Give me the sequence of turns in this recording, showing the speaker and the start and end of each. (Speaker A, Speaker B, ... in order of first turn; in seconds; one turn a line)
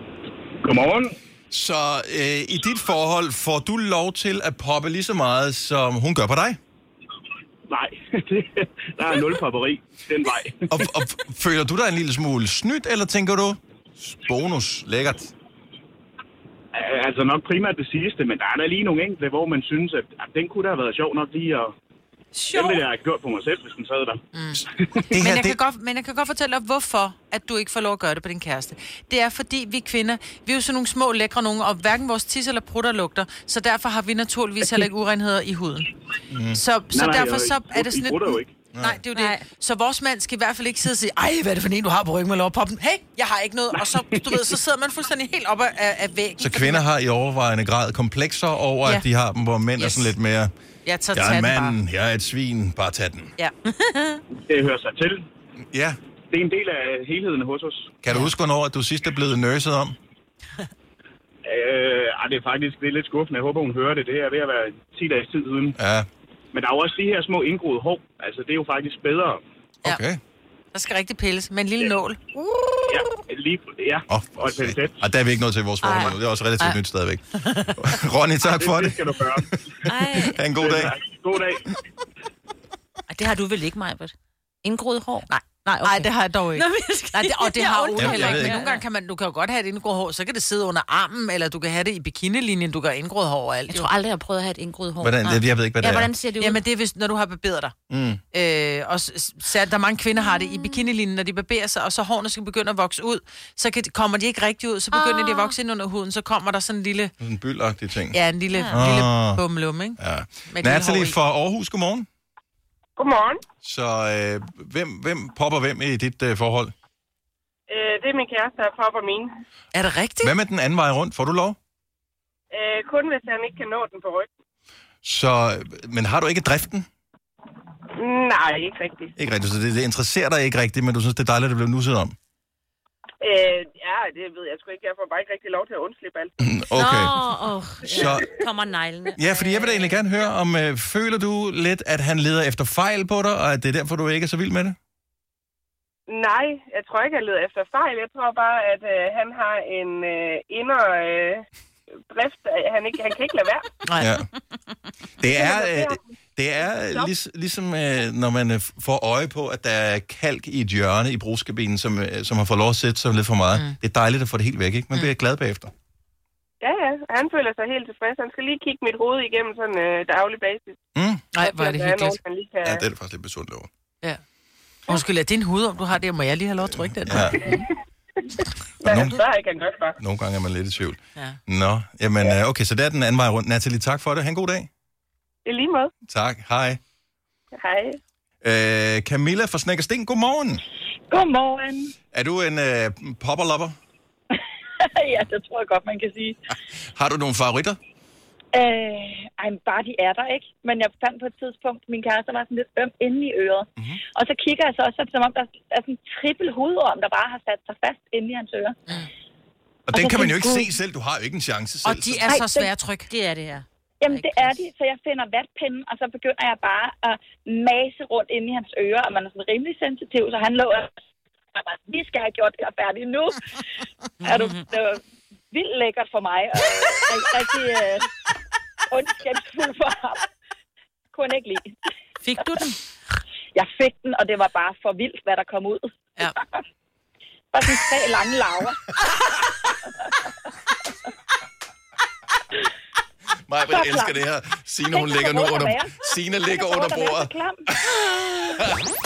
Speaker A: 0.6-1.1
Speaker B: 1.5-6.6
Speaker A: 7.7-10.7
Speaker B: 10.7-15.3
Speaker A: 16.7-21.7
Speaker C: 22.3-22.8
Speaker A: 22.5-24.2
Speaker C: 24.3-35.9
Speaker B: 25.1-25.6
Speaker B: 36.3-36.6
Speaker C: 36.5-46.8
Speaker A: 36.9-38.5
Speaker B: 38.7-39.0
Speaker D: 39.1-39.4
Speaker B: 46.4-50.5
Speaker C: 49.8-50.1
Speaker C: 50.8-51.8
Speaker B: 51.1-53.3
Speaker C: 53.4-54.1
Speaker A: 54.4-55.2
Speaker B: 55.7-56.0
Speaker A: 56.3-57.9
Speaker B: 58.0-60.0
Speaker A: 61.4-65.8
Speaker B: 65.8-66.1
Speaker A: 66.5-69.4
Speaker B: 69.8-70.2
Speaker C: 70.7-72.6
Speaker A: 72.8-75.0
Speaker B: 74.1-79.5
Speaker D: 75.8-76.1
Speaker A: 78.4-79.5
Speaker D: 79.8-80.4
Speaker B: 80.0-80.9
Speaker A: 80.5-81.7
Speaker D: 83.1-88.8
Speaker C: 85.8-93.9
Speaker B: 88.0-88.6
Speaker D: 93.7-96.6
Speaker B: 95.0-96.1
Speaker C: 96.4-97.7
Speaker B: 97.9-98.2
Speaker C: 98.3-107.1
Speaker D: 104.9-105.5
Speaker B: 107.2-108.2
Speaker C: 108.1-111.2
Speaker D: 108.5-108.9
Speaker B: 108.7-109.4
Speaker B: 110.0-112.0
Speaker E: 113.0-113.4
Speaker B: 113.6-116.7
Speaker E: 117.7-119.3
Speaker C: 119.7-120.3
Speaker B: 120.2-121.6
Speaker E: 122.5-124.3
Speaker B: 125.0-126.8
Speaker E: 128.0-129.1
Speaker B: 129.2-132.1
Speaker E: 133.2-136.3
Speaker B: 136.4-137.2
Speaker D: 136.7-140.0
Speaker B: 137.8-138.2
Speaker E: 137.9-138.2
Speaker B: 139.1-144.8
Speaker E: 146.1-151.4
Speaker E: 152.1-153.7
Speaker C: 153.8-154.1
Speaker B: 154.0-154.2
Speaker B: 155.2-165.7
Speaker E: 155.3-156.0
Speaker E: 166.6-170.8
Speaker B: 170.9-171.2
Speaker C: 171.3-172.2
Speaker E: 171.4-172.8
Speaker B: 172.6-173.7
Speaker C: 174.9-177.5
Speaker B: 177.0-177.6
Speaker E: 178.3-180.0
Speaker B: 178.8-179.2
Speaker B: 180.0-184.7
Speaker E: 185.4-185.9
Speaker B: 186.1-186.8
Speaker E: 187.6-188.0
Speaker B: 188.4-190.6
Speaker F: 191.1-191.9
Speaker B: 192.1-193.8
Speaker F: 194.8-196.4
Speaker B: 196.9-197.8
Speaker F: 198.5-208.8
Speaker B: 209.9-212.3
Speaker F: 209.9-210.7
Speaker C: 211.8-213.1
Speaker F: 212.3-212.7
Speaker D: 213.1-214.5
Speaker F: 214.0-220.9
Speaker F: 221.5-223.4
Speaker F: 224.2-225.0
Speaker D: 224.2-224.6
Speaker F: 225.5-228.1
Speaker F: 228.9-230.2
Speaker F: 231.1-231.7
Speaker D: 232.2-232.7
Speaker F: 233.5-236.6
Speaker F: 237.5-238.8
Speaker B: 243.5-248.8
Speaker F: 243.6-244.2
Speaker F: 244.9-247.6